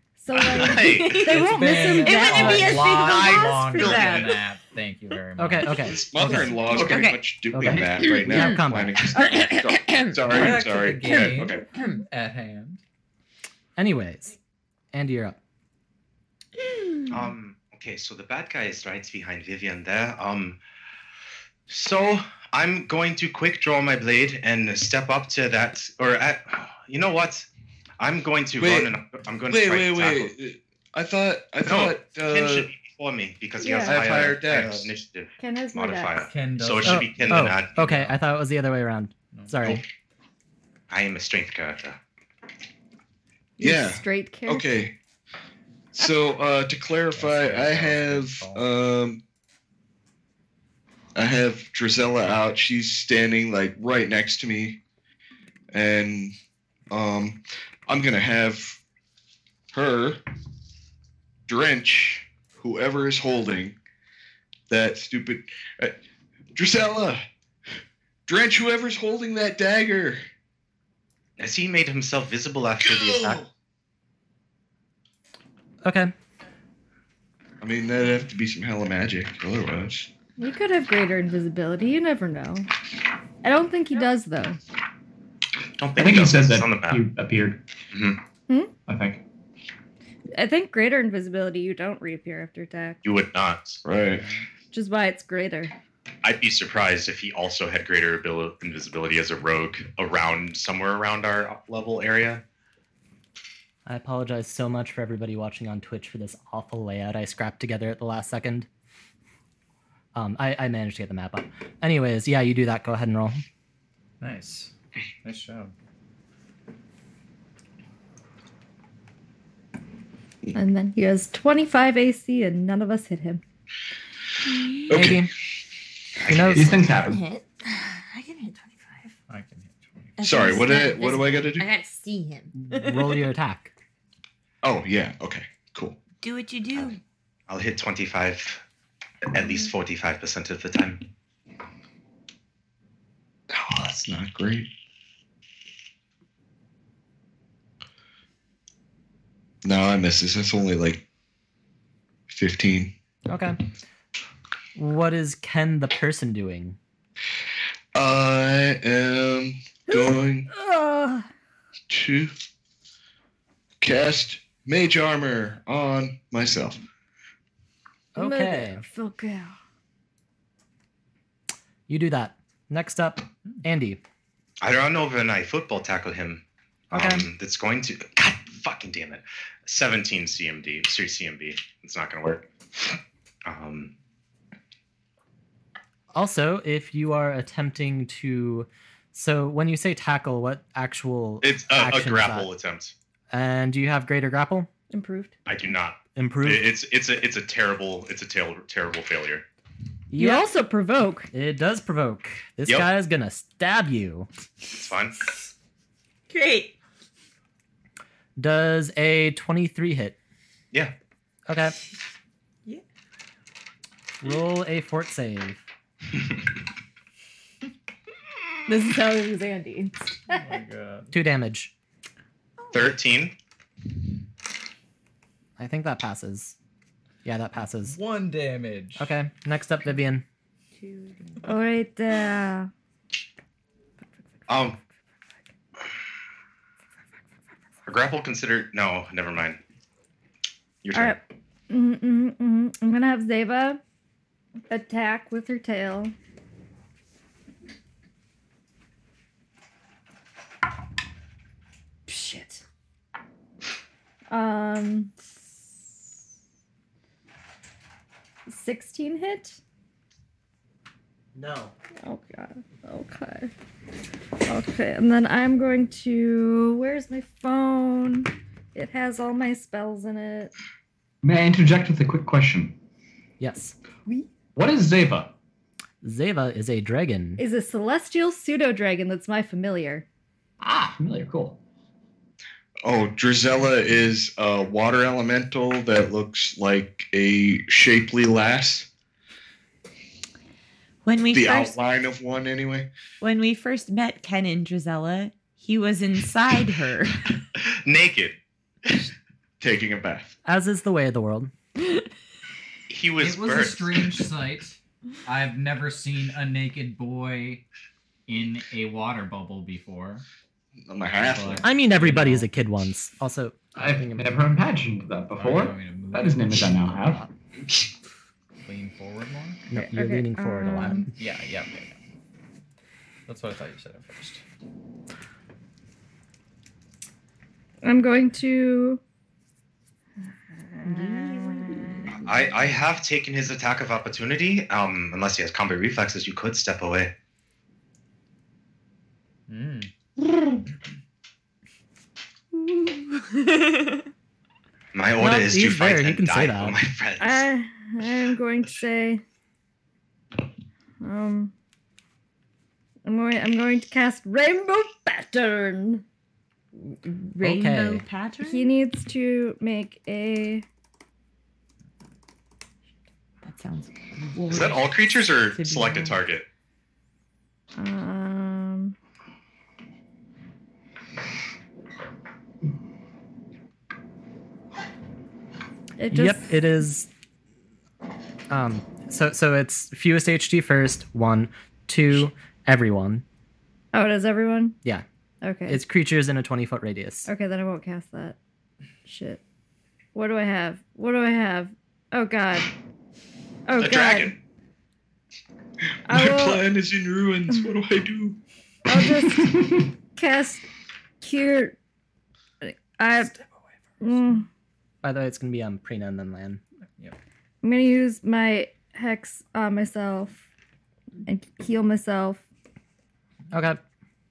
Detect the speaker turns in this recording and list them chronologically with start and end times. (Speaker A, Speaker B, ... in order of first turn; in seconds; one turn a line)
Speaker A: 0.2-3.0
Speaker B: 0.3-1.2
Speaker C: 0.7-4.4
Speaker D: 1.3-6.4
Speaker B: 3.1-4.3
Speaker E: 5.4-6.6
Speaker F: 5.7-11.6
Speaker C: 6.5-7.2
Speaker G: 6.7-8.2
Speaker E: 7.5-9.0
Speaker C: 8.0-12.0
Speaker D: 10.3-12.8
Speaker E: 13.8-14.3
Speaker E: 14.9-15.4
Speaker B: 17.1-20.6
Speaker B: 21.7-27.5
Speaker B: 28.0-30.3
Speaker F: 28.6-28.9
Speaker F: 29.5-32.7
Speaker B: 31.6-37.7
Speaker A: 33.6-34.0
Speaker F: 33.7-34.9
Speaker A: 35.4-36.3
Speaker D: 36.3-38.2
Speaker E: 36.8-39.8
Speaker D: 39.3-39.6
Speaker B: 40.9-42.0
Speaker A: 43.6-44.6
Speaker F: 43.6-44.9
Speaker F: 45.9-49.2
Speaker D: 47.1-48.7
Speaker F: 51.1-54.8
Speaker F: 55.7-56.3
Speaker F: 56.9-58.8
Speaker F: 59.7-60.2
Speaker F: 61.5-63.8
Speaker F: 64.7-66.0
Speaker F: 66.5-67.2
Speaker F: 68.3-70.2
Speaker B: 71.4-73.4
Speaker F: 72.8-73.5
Speaker E: 75.8-76.1
Speaker F: 77.6-80.1
Speaker A: 80.4-82.7
Speaker A: 83.4-84.6
Speaker B: 85.8-87.0
Speaker G: 86.0-87.6
Speaker B: 87.9-88.2
Speaker G: 88.9-89.2
Speaker A: 90.3-93.0
Speaker B: 93.0-93.8
Speaker F: 93.8-94.2
Speaker D: 94.1-94.5
Speaker A: 94.7-95.7
Speaker B: 96.2-102.4
Speaker E: 103.8-108.7
Speaker E: 110.1-113.4
Speaker D: 114.2-115.7
Speaker A: 120.5-123.4
Speaker F: 124.9-125.3
Speaker E: 124.9-125.3
Speaker E: 126.2-126.7
Speaker B: 126.3-126.5
Speaker C: 126.3-129.1
Speaker G: 126.5-127.2
Speaker D: 129.3-130.2
Speaker C: 130.2-133.2
Speaker F: 130.2-131.7
Speaker E: 132.6-133.7
Speaker F: 134.6-136.0
Speaker C: 136.2-137.0
Speaker B: 137.5-138.6
Speaker B: 139.2-141.0
Speaker C: 139.4-139.7
Speaker F: 143.5-144.7
Speaker F: 149.6-151.0
Speaker F: 152.3-152.9
Speaker E: 153.3-153.6
Speaker E: 154.7-156.8
Speaker F: 157.9-160.5
Speaker A: 159.9-161.3
Speaker F: 161.9-162.3
Speaker F: 163.8-166.8
Speaker E: 168.1-168.8
Speaker A: 168.2-169.6
Speaker E: 171.9-174.0
Speaker B: 174.6-183.9
Speaker E: 176.9-177.2
Speaker E: 186.1-192.5
Speaker B: 191.4-192.9
Speaker E: 193.3-194.7
Speaker A: 194.9-195.3
Speaker B: 195.4-199.4
Speaker E: 196.2-196.7
Speaker E: 200.1-200.5
Speaker A: 200.2-201.3
Speaker E: 201.3-204.3
Speaker B: 204.7-205.2
Speaker C: 206.3-206.8
Speaker E: 208.4-210.2
Speaker E: 211.5-211.8
Speaker E: 214.2-215.6
Speaker A: 218.7-220.5
Speaker D: 220.3-221.1
Speaker E: 221.1-221.7
Speaker C: 222.6-222.9
Speaker B: 222.7-223.3
Speaker E: 225.6-226.6
Speaker E: 227.2-228.0
Speaker D: 227.8-229.1
Speaker E: 229.0-230.2
Speaker C: 230.8-231.5
Speaker A: 231.4-232.7
Speaker B: 234.5-234.8
Speaker B: 237.8-239.6
Speaker B: 240.8-241.2
Speaker A: 240.9-243.8
Speaker A: 244.7-246.1
Speaker C: 252.1-252.5
Speaker A: 254.3-255.1
Speaker A: 258.5-259.6
Speaker E: 261.4-261.7
Speaker A: 262.0-263.5
Speaker A: 264.5-270.5
Speaker G: 271.2-272.7
Speaker E: 273.4-273.8
Speaker G: 274.5-275.4
Speaker E: 276.0-277.4
Speaker A: 277.4-280.0
Speaker G: 280.6-281.6
Speaker F: 282.8-288.9
Speaker C: 291.0-291.8
Speaker F: 291.3-292.9
Speaker C: 293.2-297.2
Speaker B: 297.6-298.4
Speaker F: 299.6-300.3
Speaker E: 300.4-301.5
Speaker B: 302.9-304.2
Speaker D: 303.2-307.6
Speaker D: 308.3-310.2
Speaker F: 310.8-311.7
Speaker D: 311.2-312.5
Speaker E: 311.6-314.3
Speaker G: 313.8-317.2
Speaker D: 315.4-316.9
Speaker E: 316.9-317.3
Speaker D: 318.6-319.6
Speaker E: 319.7-321.1
Speaker A: 319.7-321.1
Speaker D: 321.1-322.0
Speaker D: 323.3-324.4
Speaker A: 327.8-329.0
Speaker A: 330.8-331.9
Speaker C: 330.9-332.2
Speaker B: 332.2-337.1
Speaker D: 339.5-339.9
Speaker C: 343.2-344.0
Speaker B: 344.9-347.4
Speaker E: 345.2-346.8
Speaker A: 347.2-349.2
Speaker A: 351.0-351.5
Speaker A: 353.0-356.0
Speaker C: 356.7-358.7
Speaker E: 357.4-358.0
Speaker A: 358.4-360.6
Speaker C: 363.4-366.2
Speaker B: 364.5-366.4
Speaker A: 367.8-368.9
Speaker A: 376.0-376.6
Speaker E: 376.1-377.1
Speaker E: 378.5-383.2
Speaker A: 383.9-384.8
Speaker A: 385.4-385.8
Speaker E: 385.6-387.3
Speaker A: 387.3-388.4
Speaker A: 389.0-389.4
Speaker A: 390.1-392.7
Speaker A: 393.7-394.4
Speaker B: 393.8-394.4
Speaker A: 396.1-396.6
Speaker F: 396.1-398.4
Speaker A: 398.9-400.6
Speaker A: 401.2-401.8
Speaker A: 402.6-403.3
Speaker A: 404.0-404.5
Speaker E: 405.0-406.6
Speaker A: 407.6-410.4
Speaker A: 411.2-412.4
Speaker E: 413.5-413.8